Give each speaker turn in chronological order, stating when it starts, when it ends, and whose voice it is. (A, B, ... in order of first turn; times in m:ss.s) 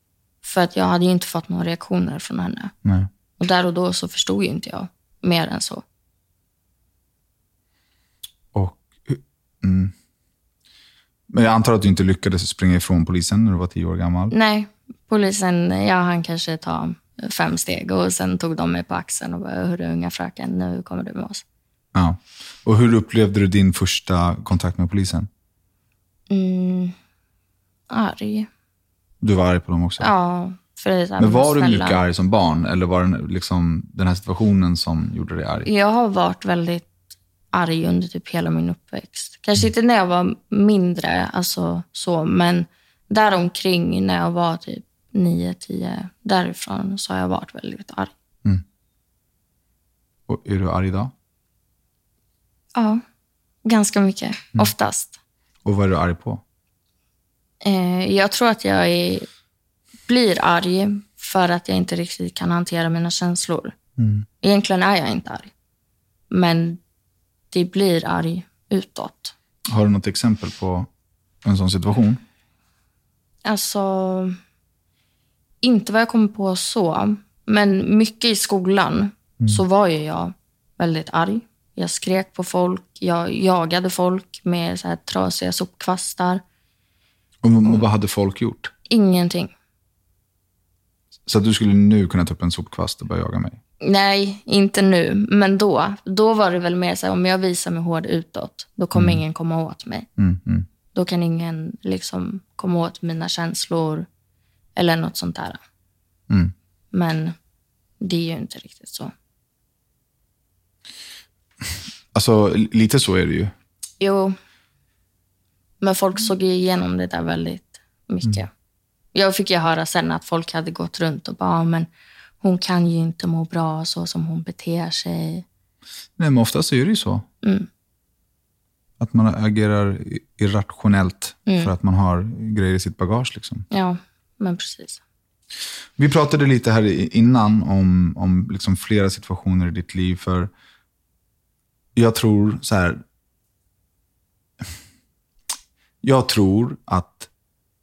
0:00.4-0:02.7 A
0:02.8-0:03.1 B
0:03.4-0:05.8 A
0:08.5-0:09.9 B
0:11.3-0:14.3 B
0:14.3-0:21.4 A
0:21.9-0:25.3 B
0:26.3-0:26.9 A
0:27.9-0:28.5 A
0:29.2-0:30.1 B
0:30.0-0:32.0 A
0:31.2-0:35.7 B
0:35.6-0:36.9 A
0:37.5-0:48.1 A
0:50.3-0:51.1 B
0:52.7-0:53.0 A
0:53.6-0:55.1 A
0:55.6-0:56.4 B
0:57.6-0:59.3 A
1:00.1-1:03.7 A
1:04.0-1:04.3 B
1:04.4-1:05.5 A
1:06.3-1:06.8 A
1:07.5-1:09.3 A
1:09.7-1:10.9 B
1:11.4-1:12.2 B
1:13.4-1:14.4 A
1:15.6-1:26.4 A
1:27.4-1:28.7 B
1:28.9-1:29.5 A
1:31.3-1:33.6 B
1:33.8-1:40.1 A
1:38.9-1:39.2 B
1:40.2-1:40.7 B
1:40.9-1:44.1 A
1:44.8-1:45.6 A
1:46.9-1:47.3 A
1:48.0-1:49.1 A
1:52.1-1:53.5 B
1:54.0-1:54.4 A
1:55.8-1:58.5 A
1:59.1-2:01.9 A
2:02.4-2:05.4 A
2:06.2-2:07.2 B
2:07.4-2:07.7 A
2:09.0-2:13.6 B
2:11.5-2:11.7 A
2:13.7-2:15.0 A
2:16.0-2:20.5 B
2:21.9-2:23.0 B
2:26.0-2:27.3 B